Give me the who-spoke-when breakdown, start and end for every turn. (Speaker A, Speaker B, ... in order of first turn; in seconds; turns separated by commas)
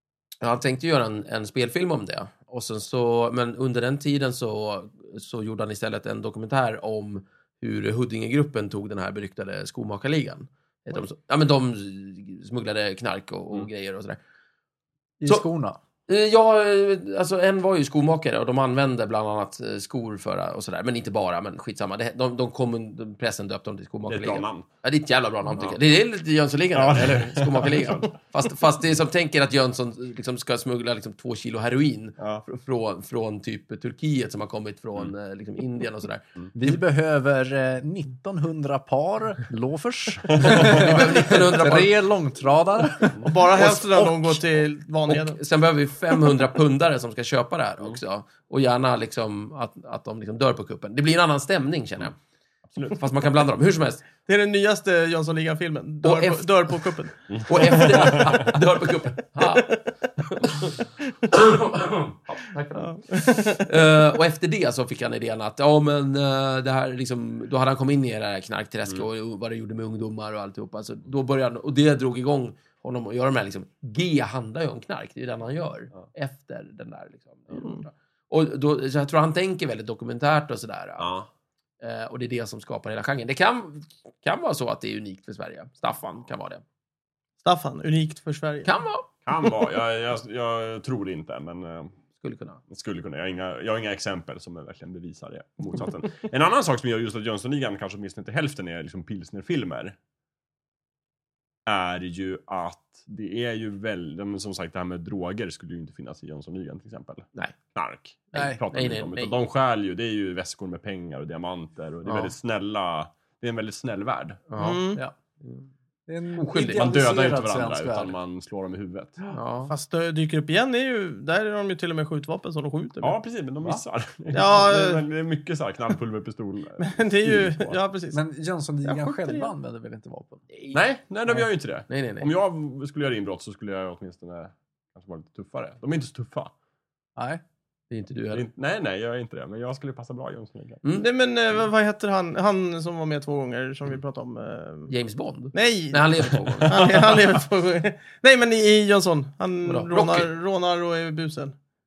Speaker A: 0.4-14.2, Speaker B: 15.2-15.8, Speaker A: 16.1-36.8, Speaker C: 24.1-24.7, Speaker C: 25.5-25.8, Speaker C: 26.7-28.1, Speaker C: 32.2-32.5, Speaker B: 36.5-44.4, Speaker C: 40.3-41.1, Speaker A: 40.4-42.0, Speaker D: 43.3-45.4, Speaker A: 45.1-52.2, Speaker C: 52.7-53.0, Speaker A: 52.9-54.0, Speaker D: 54.3-57.1, Speaker A: 56.0-56.9, Speaker C: 57.3-58.5, Speaker A: 57.5-59.8, Speaker D: 57.7-58.2, Speaker D: 59.4-59.9, Speaker A: 61.3-81.1, Speaker D: 62.8-63.7, Speaker D: 77.5-77.8, Speaker C: 81.0-81.3, Speaker A: 81.8-86.6, Speaker D: 87.4-88.7, Speaker A: 88.7-89.1, Speaker C: 89.3-91.9, Speaker A: 92.2-92.6, Speaker C: 92.7-100.0, Speaker C: 101.7-114.4, Speaker A: 108.3-109.3, Speaker B: 108.3-108.6, Speaker A: 112.1-112.3, Speaker A: 114.5-115.7, Speaker D: 114.6-115.0, Speaker B: 116.1-118.2, Speaker A: 116.3-116.9, Speaker C: 116.7-119.2, Speaker A: 119.3-119.7, Speaker D: 119.7-123.2, Speaker C: 123.0-127.8, Speaker D: 124.3-125.0, Speaker D: 126.8-128.2, Speaker B: 128.1-130.4, Speaker D: 128.8-129.5, Speaker A: 130.5-130.8, Speaker C: 130.7-136.5, Speaker A: 131.9-132.3, Speaker B: 137.2-137.4, Speaker A: 137.9-138.4, Speaker C: 138.3-140.8, Speaker A: 140.8-141.1, Speaker D: 140.9-144.9, Speaker A: 144.9-147.1, Speaker D: 145.5-151.6, Speaker C: 146.6-147.2, Speaker A: 149.7-150.3